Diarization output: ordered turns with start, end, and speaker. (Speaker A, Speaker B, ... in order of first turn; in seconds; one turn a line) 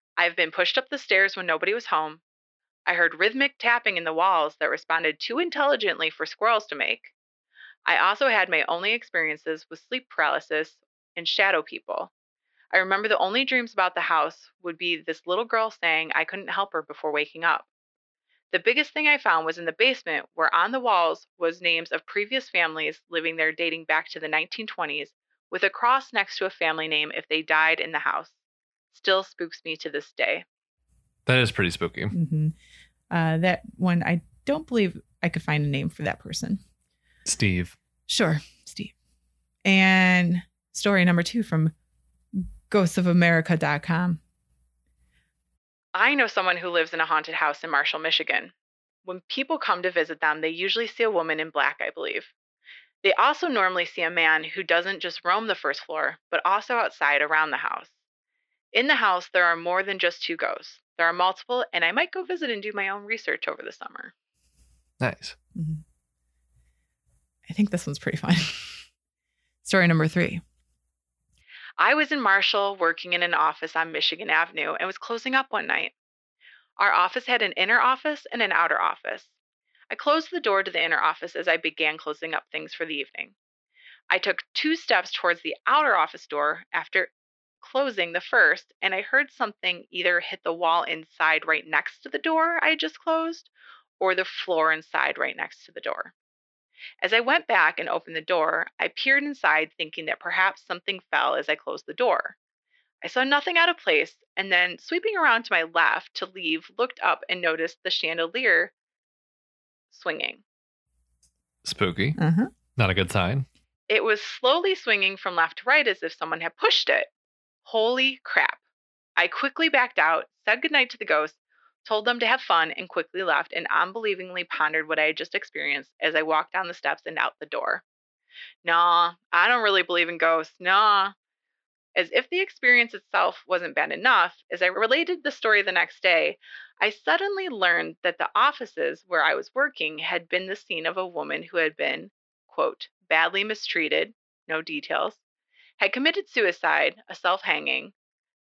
Speaker A: 0.2-2.2
Speaker A: 2.9-7.1
Speaker A: 7.8-12.1
Speaker A: 12.7-17.7
Speaker A: 18.5-28.3
Speaker A: 28.9-30.4
Speaker B: 31.2-32.1
Speaker A: 32.1-32.5
Speaker A: 33.1-36.6
Speaker B: 37.2-37.8
Speaker A: 38.1-38.9
Speaker A: 39.6-41.7
Speaker A: 42.4-44.2
Speaker A: 45.9-48.5
Speaker A: 49.0-52.3
Speaker A: 53.0-57.9
Speaker A: 58.7-64.1
Speaker B: 65.0-65.3
Speaker A: 65.5-65.8
Speaker A: 67.5-68.8
Speaker A: 69.6-70.4
Speaker A: 71.8-75.9
Speaker A: 76.8-79.3
Speaker A: 79.9-83.3
Speaker A: 84.1-96.1
Speaker A: 97.0-102.3
Speaker A: 103.0-108.7
Speaker A: 109.9-110.4
Speaker B: 111.6-112.2
Speaker A: 112.2-112.5
Speaker B: 112.8-113.5
Speaker A: 113.9-117.1
Speaker A: 117.6-118.6
Speaker A: 119.2-127.8
Speaker A: 128.6-131.1
Speaker A: 131.9-145.2
Speaker A: 145.8-147.9